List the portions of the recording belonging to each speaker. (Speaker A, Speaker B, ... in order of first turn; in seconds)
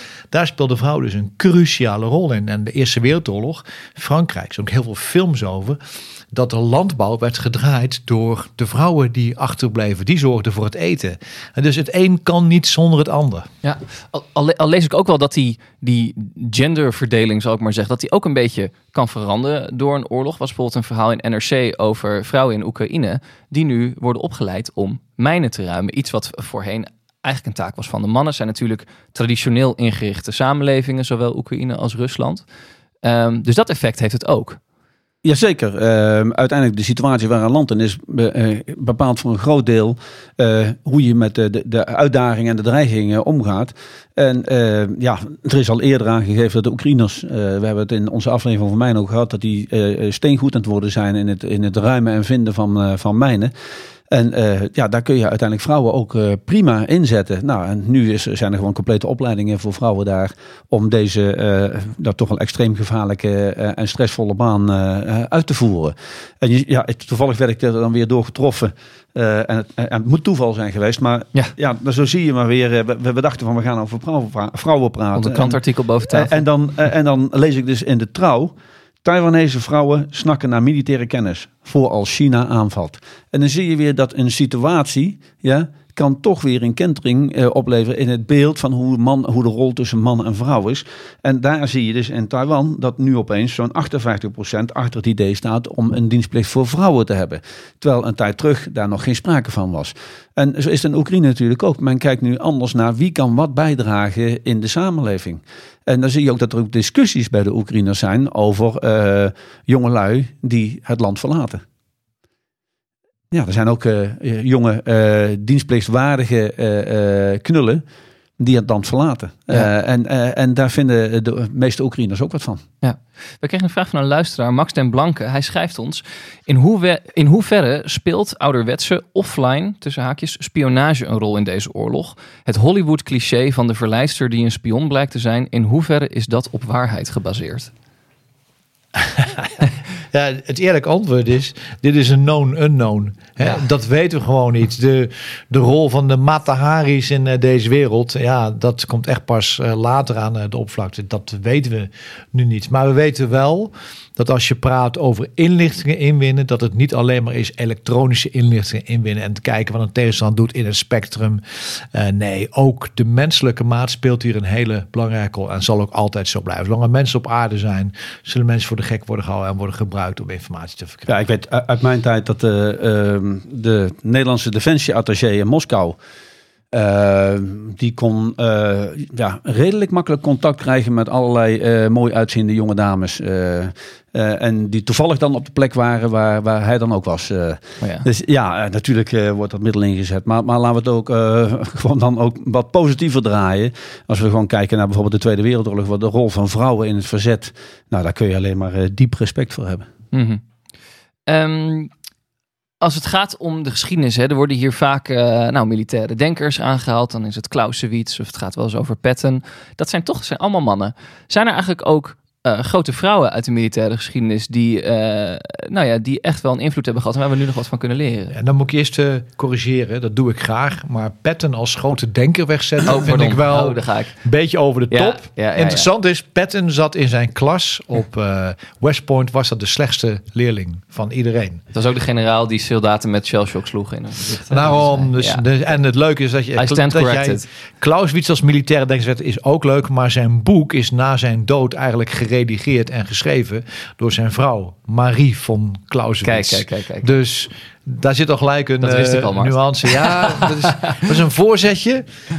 Speaker A: 0.3-5.8, 6.3-13.5, 139.0-139.5, 140.1-161.4, 161.9-171.1, 218.3-231.6, 234.5-252.0
Speaker B: 13.6-32.4, 33.0-34.6, 75.1-76.4, 122.8-137.7, 187.8-188.1, 200.1-200.4, 201.3-201.9, 202.8-218.3, 222.9-224.1, 224.9-225.9, 231.7-235.4, 236.6-237.4, 246.2-247.1, 248.8-250.9
Speaker C: 35.2-53.5, 54.1-111.6, 113.3-117.8, 118.4-122.6, 171.1-176.0, 176.7-199.8